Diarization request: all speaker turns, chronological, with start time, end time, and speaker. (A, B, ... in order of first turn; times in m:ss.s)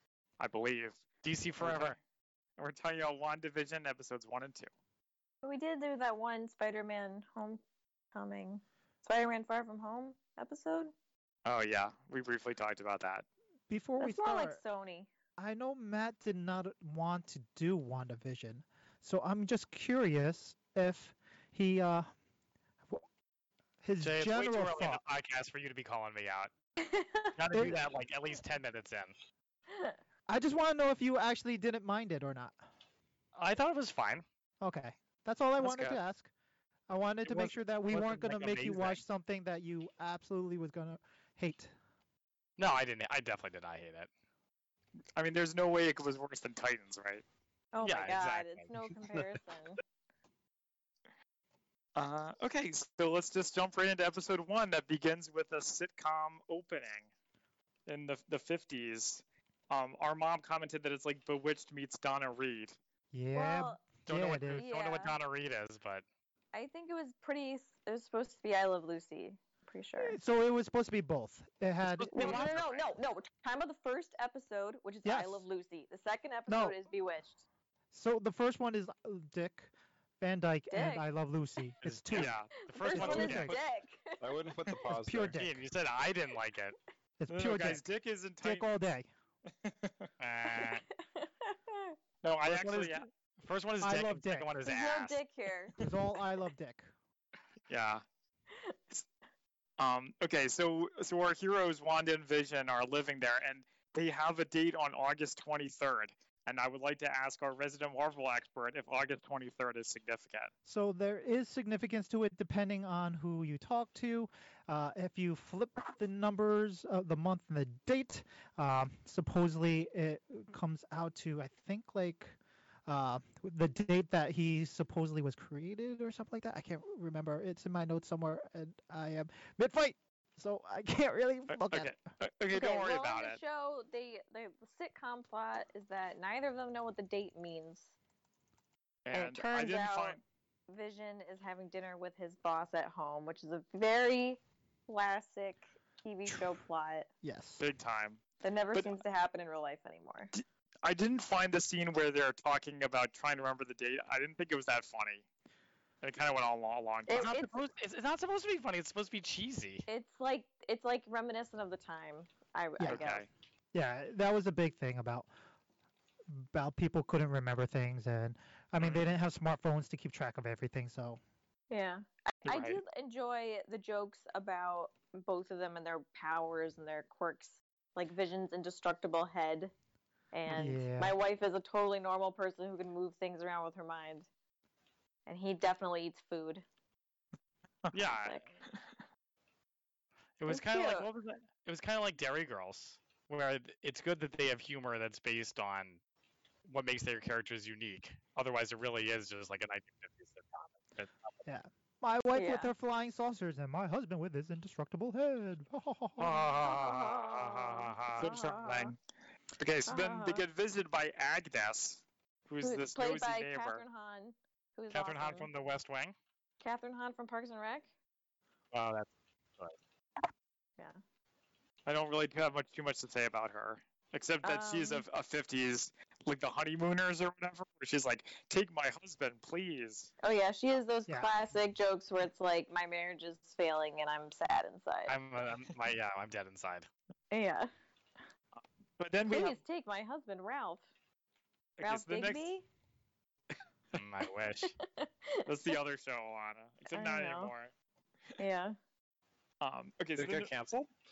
0:00.4-0:01.1 A
0:01.2-0:02.0 B
0:01.6-0:02.0 A
0:02.6-0:04.7 A
0:05.4-0:07.6 C
0:08.1-0:10.9 C
0:11.4-0:13.2 A
0:13.7-0:14.6 D
0:14.0-0:15.1 C
0:15.4-0:22.1 D
0:23.8-0:25.0 D
0:24.0-0:26.5 B
0:26.8-0:27.4 C
0:27.4-0:29.1 B
0:27.5-0:27.8 D
0:29.7-0:30.0 C
0:30.3-0:32.6 D
0:33.3-0:34.2 B
0:34.6-0:36.3 D
0:35.6-0:35.9 B
0:36.9-0:41.7 D
0:37.2-0:39.0 B
0:42.6-0:44.1 B
0:45.1-0:47.2 A
0:47.7-0:49.8 C
0:47.8-0:48.7 B
0:51.9-0:57.1 A
0:57.9-1:02.8 A
1:03.1-1:04.6 D
1:03.3-1:03.8 C
1:04.0-1:06.0 B
1:04.6-1:05.2 C
1:06.5-1:10.2 C
1:10.0-1:12.5 D
1:11.8-1:12.9 B
1:12.1-1:17.4 C
1:15.0-1:15.4 D
1:16.5-1:16.8 D
1:17.9-1:22.3 D
1:20.7-1:21.1 C
1:21.8-1:23.5 B
1:22.6-1:24.3 C
1:22.9-1:23.6 D
1:22.9-1:23.7 E
1:24.2-1:25.3 E
1:24.9-1:25.6 D
1:25.4-1:26.7 B
1:27.2-1:27.8 D
1:27.3-1:28.7 A
1:28.4-1:29.1 D
1:29.6-1:30.1 A
1:30.2-1:30.8 B
1:30.4-1:32.0 C
1:32.2-1:33.1 A
1:32.4-1:35.2 B
1:33.8-1:34.5 D
1:34.6-1:35.8 C
1:35.8-1:36.9 D
1:37.7-1:38.0 A
1:39.8-1:50.5 A
1:50.6-2:12.0 D
2:11.7-2:13.3 B
2:12.2-2:13.4 A
2:12.5-2:17.9 C
2:19.0-2:20.2 A
2:19.1-2:27.1 C
2:26.3-2:26.5 D
2:27.2-2:27.6 D
2:27.6-2:28.2 A
2:28.4-2:30.3 C
2:30.3-2:35.2 A
2:36.0-2:37.4 A
2:37.0-2:37.6 C
2:37.1-2:39.8 B
2:39.9-2:43.3 C
2:42.8-2:43.3 A
2:43.7-2:45.3 D
2:46.3-2:51.2 D
2:48.8-2:49.0 B
2:51.7-2:59.7 C
2:52.4-2:52.8 A
3:00.3-3:04.3 C
3:00.5-3:01.1 D
3:05.2-3:06.6 C
3:07.9-3:08.4 B
3:08.2-3:08.5 C
3:10.4-3:16.0 B
3:10.4-3:11.1 C
3:16.6-3:21.4 B
3:21.4-3:26.5 D
3:22.3-3:22.7 C
3:26.2-3:28.5 B
3:26.6-3:28.9 C
3:28.1-3:28.9 A
3:29.6-3:33.8 A
3:29.8-3:30.5 C
3:32.6-3:35.5 C
3:34.9-3:36.1 B
3:36.6-3:37.9 C
3:38.7-3:39.8 B
3:41.8-3:50.1 A
3:44.4-3:45.0 C
3:50.2-3:55.2 C
3:55.1-3:56.8 B
3:57.3-3:57.7 C
3:59.0-3:59.6 A
3:59.2-4:00.8 C
4:01.8-4:02.5 A
4:01.8-4:02.6 C
4:03.9-4:04.7 B
4:04.6-4:05.8 C
4:05.4-4:07.7 A
4:06.9-4:07.5 C
4:08.4-4:08.8 C
4:09.6-4:10.6 A
4:10.1-4:10.9 E